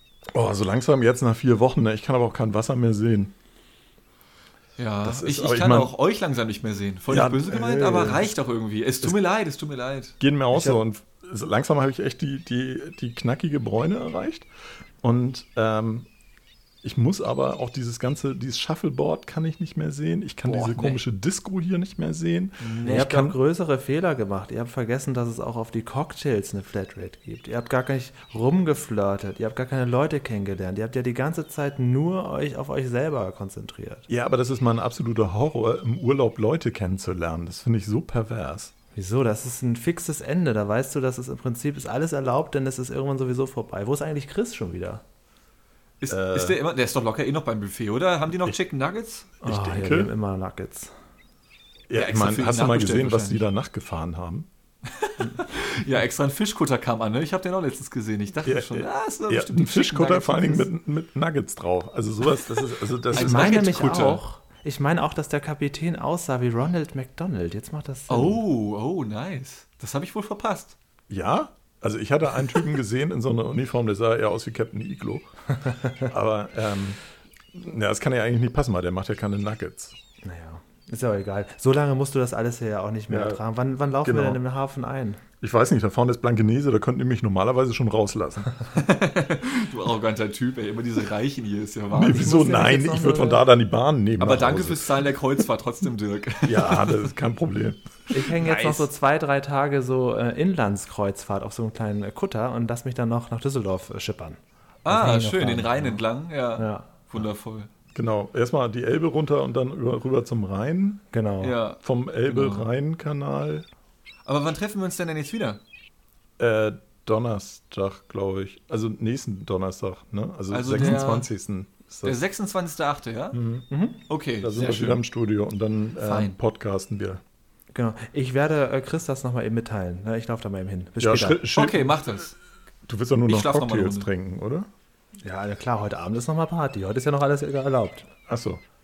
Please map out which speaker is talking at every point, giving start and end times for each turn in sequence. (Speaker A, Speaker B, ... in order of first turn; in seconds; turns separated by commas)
Speaker A: 0.3-3.3, Speaker B: 4.8-10.2, Speaker A: 5.0-5.9, Speaker A: 7.1-8.3, Speaker A: 10.2-14.5, Speaker A: 15.0-16.1, Speaker A: 16.8-23.4, Speaker B: 20.4-21.0, Speaker B: 22.6-23.2, Speaker C: 22.9-34.1, Speaker A: 34.1-38.7, Speaker C: 38.9-45.0, Speaker B: 46.0-49.3, Speaker A: 46.1-46.6, Speaker A: 49.4-50.1, Speaker C: 49.4-50.9, Speaker A: 51.9-54.5, Speaker B: 51.9-53.5, Speaker B: 54.9-60.7, Speaker A: 58.4-64.0, Speaker B: 63.1-64.2, Speaker C: 63.1-68.4, Speaker B: 68.1-70.8, Speaker A: 71.1-75.3, Speaker A: 76.0-77.0, Speaker A: 77.5-80.0, Speaker C: 80.2-85.2, Speaker A: 83.1-83.4, Speaker A: 84.0-84.4, Speaker A: 85.4-88.6, Speaker B: 88.7-92.3, Speaker A: 91.9-95.1, Speaker C: 92.1-93.5, Speaker B: 94.2-97.1, Speaker A: 96.4-97.9, Speaker C: 98.1-107.2, Speaker B: 98.2-98.9, Speaker B: 104.8-107.7, Speaker A: 107.9-111.0, Speaker C: 111.1-111.6, Speaker B: 111.4-112.7, Speaker A: 111.8-113.7, Speaker B: 114.2-115.6, Speaker A: 116.4-122.2, Speaker B: 120.5-121.3, Speaker B: 122.0-123.4, Speaker A: 123.3-123.7, Speaker C: 123.7-124.0, Speaker B: 124.1-125.0, Speaker A: 124.4-127.2, Speaker B: 126.0-126.4, Speaker C: 127.7-131.5, Speaker A: 131.0-132.1, Speaker B: 131.5-132.3, Speaker A: 132.8-134.7, Speaker B: 133.3-134.1, Speaker C: 135.2-138.1, Speaker A: 138.3-138.6